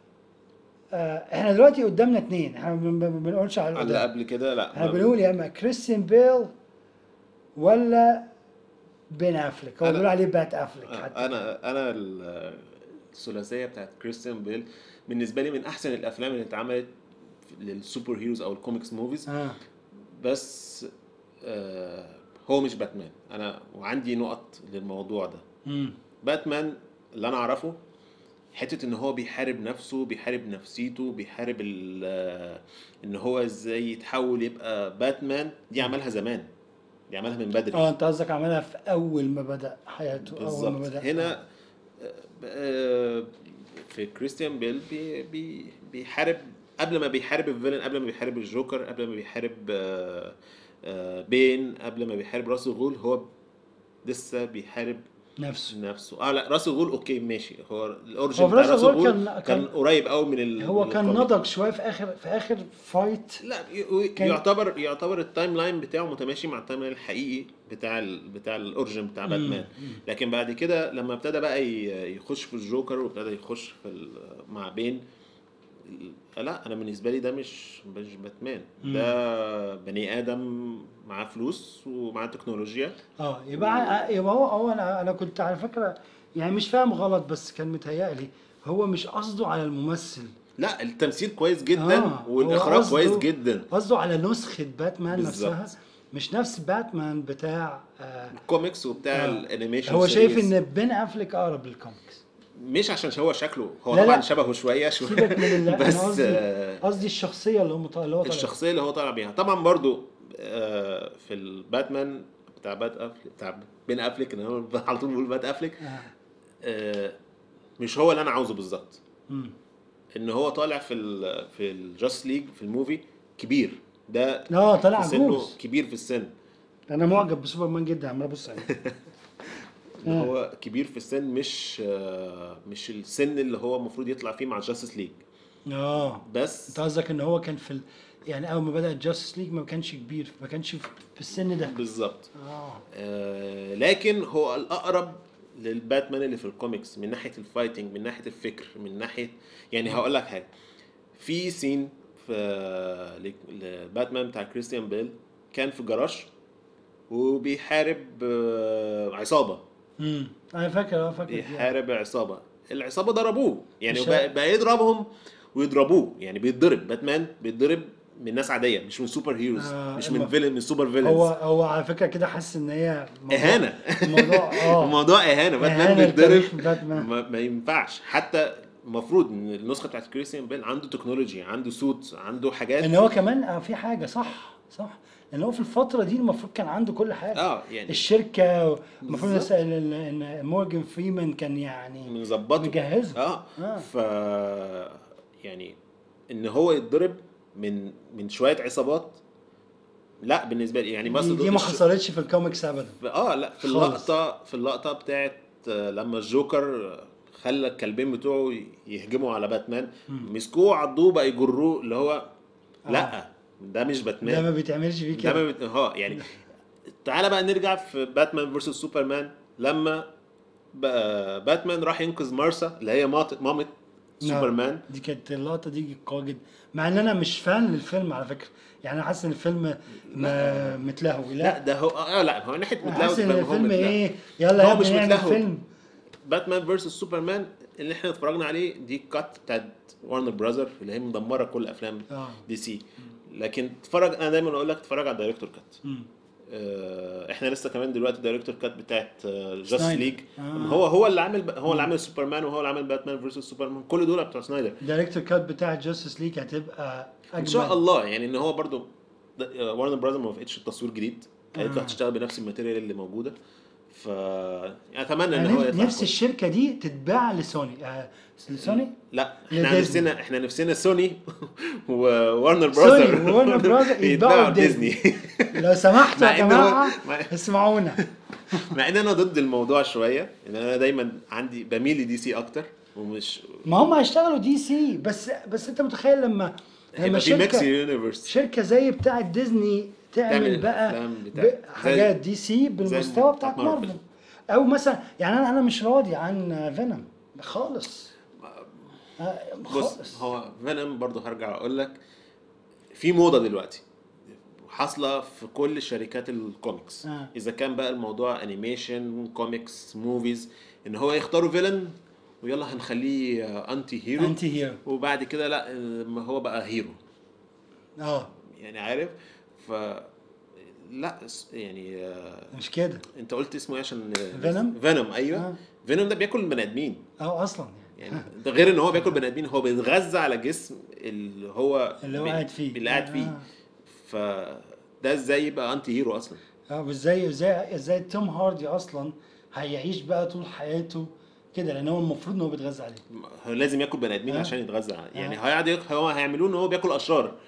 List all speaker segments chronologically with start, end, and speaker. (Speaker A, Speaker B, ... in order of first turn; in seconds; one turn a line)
Speaker A: 0.9-4.1
Speaker B: 3.7-5.2
Speaker A: 4.7-6.5
Speaker A: 7.5-8.3
Speaker A: 9.1-11.4
Speaker B: 9.8-10.1
Speaker B: 10.8-16.9
Speaker B: 17.4-19.3
Speaker A: 19.3-19.6
Speaker B: 20.1-20.9
Speaker B: 21.4-25.4
Speaker A: 25.6-25.9
Speaker B: 26.2-27.8
Speaker B: 28.5-36.5
Speaker B: 37.1-37.9
Speaker A: 37.7-41.3
Speaker B: 40.1-41.5
Speaker B: 42.0-53.3
Speaker B: 54.0-55.0
Speaker A: 55.4-55.8
Speaker B: 55.7-61.3
Speaker A: 58.4-59.7
Speaker A: 60.6-63.4
Speaker B: 63.4-75.0
Speaker A: 64.2-64.4
Speaker A: 69.2-70.0
Speaker B: 75.8-83.0
Speaker A: 78.8-79.1
Speaker A: 83.2-90.3
Speaker B: 83.5-84.0
Speaker B: 90.6-93.7
Speaker A: 91.7-98.4
Speaker B: 95.1-95.6
Speaker B: 98.3-100.5
Speaker A: 99.1-102.2
Speaker B: 102.5-106.8
Speaker A: 103.9-104.2
Speaker A: 105.0-108.6
Speaker B: 108.2-115.9
Speaker A: 115.8-116.1
Speaker B: 116.6-117.2
Speaker B: 117.8-119.0
Speaker A: 119.3-119.5
Speaker B: 120.1-126.3
Speaker A: 124.5-125.5
Speaker A: 126.9-128.7
Speaker B: 128.7-128.9
Speaker B: 130.0-135.2
Speaker A: 130.0-130.3
Speaker A: 135.7-141.8
Speaker B: 136.2-136.8
Speaker B: 141.6-142.3
Speaker A: 142.3-142.8
Speaker B: 142.9-150.5
Speaker B: 151.1-156.3
Speaker B: 157.1-159.6
Speaker A: 160.0-161.7
Speaker B: 161.2-171.3
Speaker A: 163.9-164.3
Speaker A: 169.6-170.3
Speaker A: 171.0-175.0
Speaker B: 173.3-183.1
Speaker A: 175.6-177.1
Speaker A: 182.8-193.8
Speaker B: 187.3-188.1
Speaker B: 189.0-189.5
Speaker B: 192.0-195.8
Speaker B: 196.3-199.2
Speaker B: 200.2-201.8
Speaker A: 201.0-203.0
Speaker B: 203.0-212.3
Speaker A: 203.6-204.1
Speaker A: 212.9-213.2
Speaker B: 212.9-214.5
Speaker A: 214.2-215.4
Speaker B: 215.1-216.3
Speaker B: 217.0-220.1
Speaker B: 220.7-224.8
Speaker A: 224.2-231.6
Speaker B: 230.0-230.8
Speaker B: 231.4-234.0
Speaker A: 232.8-235.6
Speaker B: 234.5-235.4
Speaker B: 236.2-245.8
Speaker A: 242.1-242.4
Speaker B: 246.5-254.8
Speaker A: 249.7-250.8
Speaker A: 254.8-257.8
Speaker B: 257.3-263.4
Speaker A: 261.6-262.0
Speaker B: 263.9-266.1
Speaker A: 265.3-268.9
Speaker B: 268.6-277.3
Speaker A: 269.5-270.1
Speaker A: 272.7-275.0
Speaker A: 275.5-278.7
Speaker B: 278.0-283.9
Speaker A: 283.6-287.7
Speaker B: 286.9-288.3
Speaker A: 288.2-298.1
Speaker B: 290.3-292.1
Speaker B: 292.8-293.9
Speaker B: 298.4-298.7
Speaker A: 299.2-300.2
Speaker B: 299.7-302.0
Speaker B: 302.9-303.8
Speaker B: 304.6-317.0
Speaker A: 307.0-307.3
Speaker A: 314.2-314.8
Speaker A: 318.0-318.3
Speaker B: 318.4-322.5
Speaker A: 322.5-323.0
Speaker B: 323.1-327.1
Speaker A: 324.3-324.8
Speaker A: 327.2-328.3
Speaker B: 328.0-333.4
Speaker A: 332.0-333.4
Speaker B: 333.9-336.4
Speaker A: 336.7-343.0
Speaker B: 343.1-347.4